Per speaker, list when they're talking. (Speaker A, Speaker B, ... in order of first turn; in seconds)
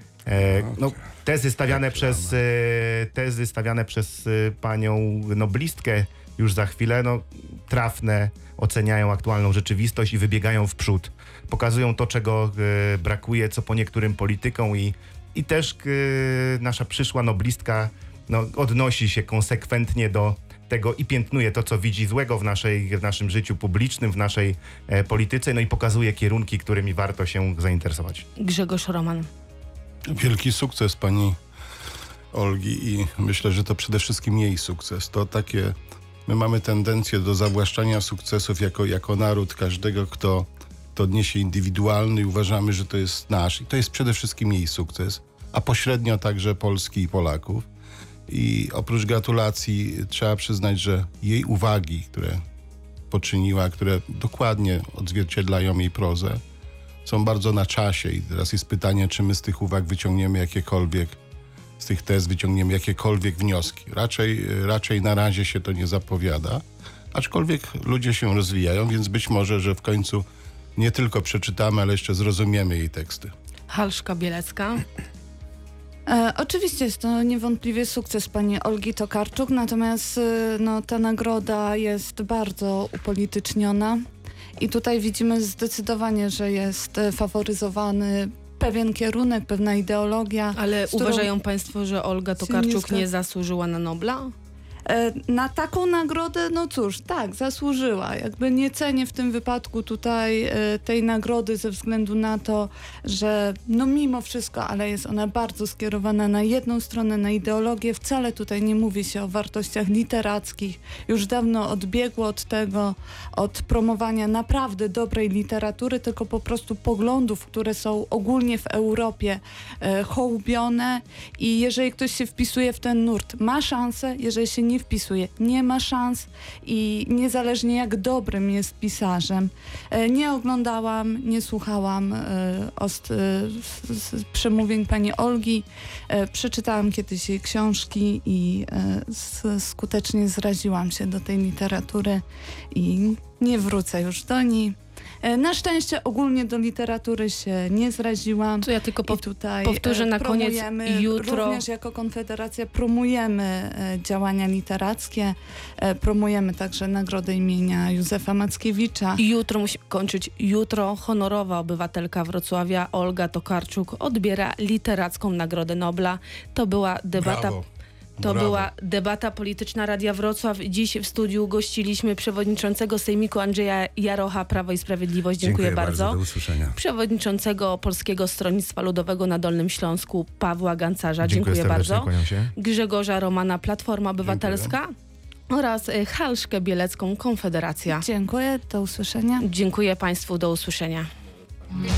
Speaker A: 0.2-28.2, 181.2-182.5
Speaker B: 0.3-0.8, 1.7-2.3, 175.4-176.8
Speaker C: 28.4-29.3, 73.7-74.8, 90.5-94.3, 148.6-151.6, 159.2-167.6, 168.2-176.2, 176.7-184.9, 185.5-188.0, 189.4-191.1
Speaker D: 30.1-31.4, 32.3-35.7, 36.2-47.6, 48.3-52.4, 53.1-56.4, 57.0-61.2, 61.8-70.2, 70.8-73.3, 167.2-167.6, 168.2-168.7, 184.2-184.8
Speaker E: 76.1-84.0, 84.6-91.3, 92.4-93.0, 94.9-159.2, 187.9-189.4